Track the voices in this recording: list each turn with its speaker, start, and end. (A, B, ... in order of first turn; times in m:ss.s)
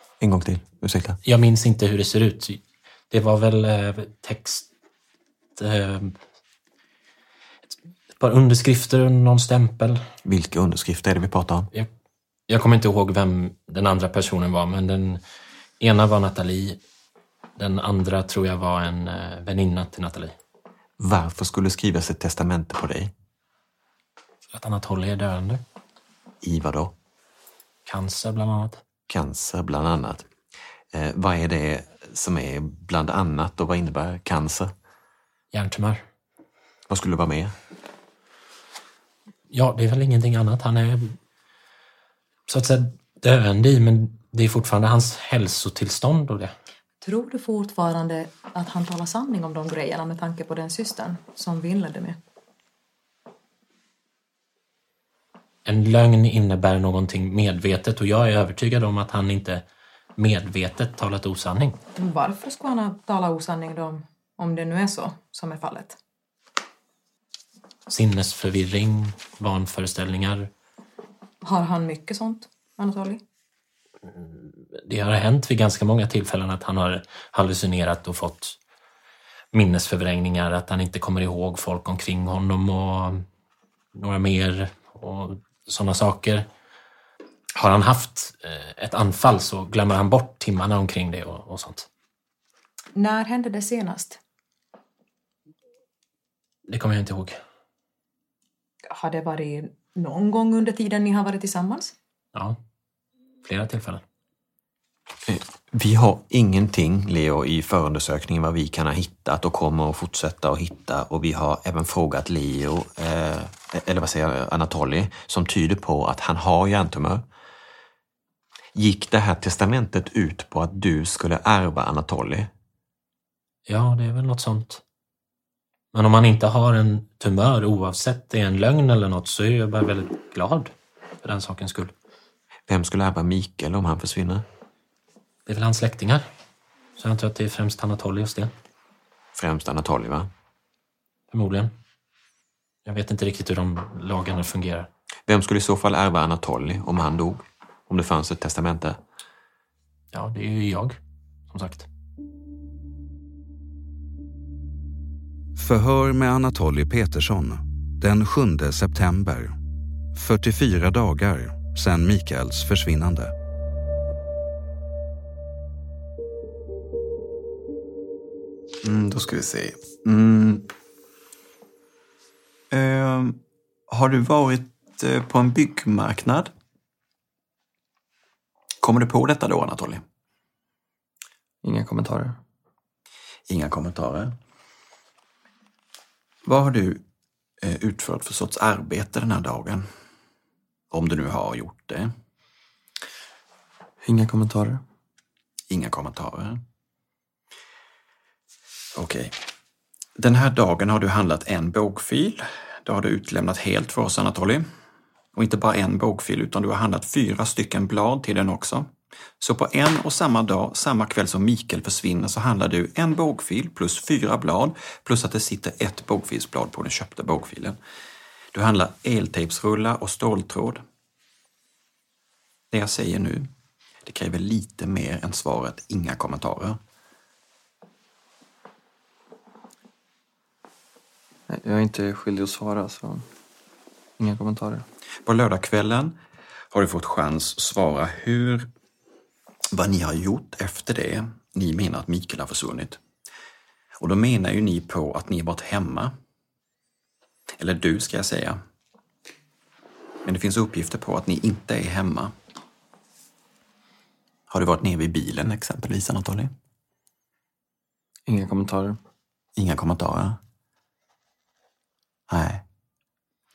0:00.2-0:01.2 A
0:01.2-0:04.7 B
0:05.6-0:06.2 B
0:08.1-0:10.0 B
0:10.2-0:11.7 A
0:12.5-0:15.2 B
0:15.8-0:16.8 B
0:17.6-0:20.3 B
0:21.0-0:23.1 A
0:24.5-0:25.6 B
0:26.4-0:26.9 A
0:27.8-0:28.8 B
0:29.1-0:30.3 A
0:30.9-0:34.7 A
0:35.5-0:36.0 B
0:36.9-0:37.6 A
0:39.5-0:41.2 B
0:42.5-0:46.5 B
0:47.0-0:52.2 C
0:55.6-0:59.6 B
1:00.2-1:01.8 B
1:02.0-1:06.0 C
1:07.9-1:10.5 B
1:11.4-1:13.2 C
1:14.1-1:18.6 B
1:19.5-1:23.2 B
1:23.9-1:26.5 B
1:27.5-1:31.9 B
1:32.9-1:34.2 C
1:36.7-1:37.4 B
1:38.9-1:41.9 C
1:43.4-1:44.0 B
1:45.3-1:57.2 A
1:58.7-2:02.5 A
2:03.7-2:04.8 B
2:05.9-2:11.9 B
2:12.7-2:14.4 A
2:15.5-2:16.2 B
2:17.0-2:18.5 B
2:19.3-2:20.3 A
2:21.3-2:21.7 B
2:22.8-2:24.9 B
2:25.3-2:29.0 A
2:30.1-2:31.0 B
2:31.5-2:31.9 B
2:35.6-2:39.6 D
2:40.1-2:43.3 D
2:48.8-2:50.7 E
2:52.7-2:56.5 E
2:58.8-3:00.0 E
3:01.6-3:02.4 F
3:03.5-3:04.3 E
3:06.4-3:07.0 E
3:07.6-3:09.9 E
3:10.9-3:12.1 E
3:14.0-3:14.8 F
3:15.7-3:16.6 E
3:18.9-3:19.3 E
3:20.2-3:24.6 E
3:25.3-3:37.8 E
3:38.5-3:40.8 E
3:42.7-3:43.5 E
3:44.0-3:46.8 E
3:51.5-3:53.3 F
3:54.2-3:54.8 F
3:55.2-3:56.2 E
3:56.7-3:58.7 E
3:59.7-4:03.0 E
4:04.0-4:06.1 E
4:07.6-4:08.6 E
4:10.2-4:12.3 E
4:14.5-4:16.5 E
4:18.2-4:19.0 F
4:19.6-4:20.4 E
4:22.3-4:22.6 E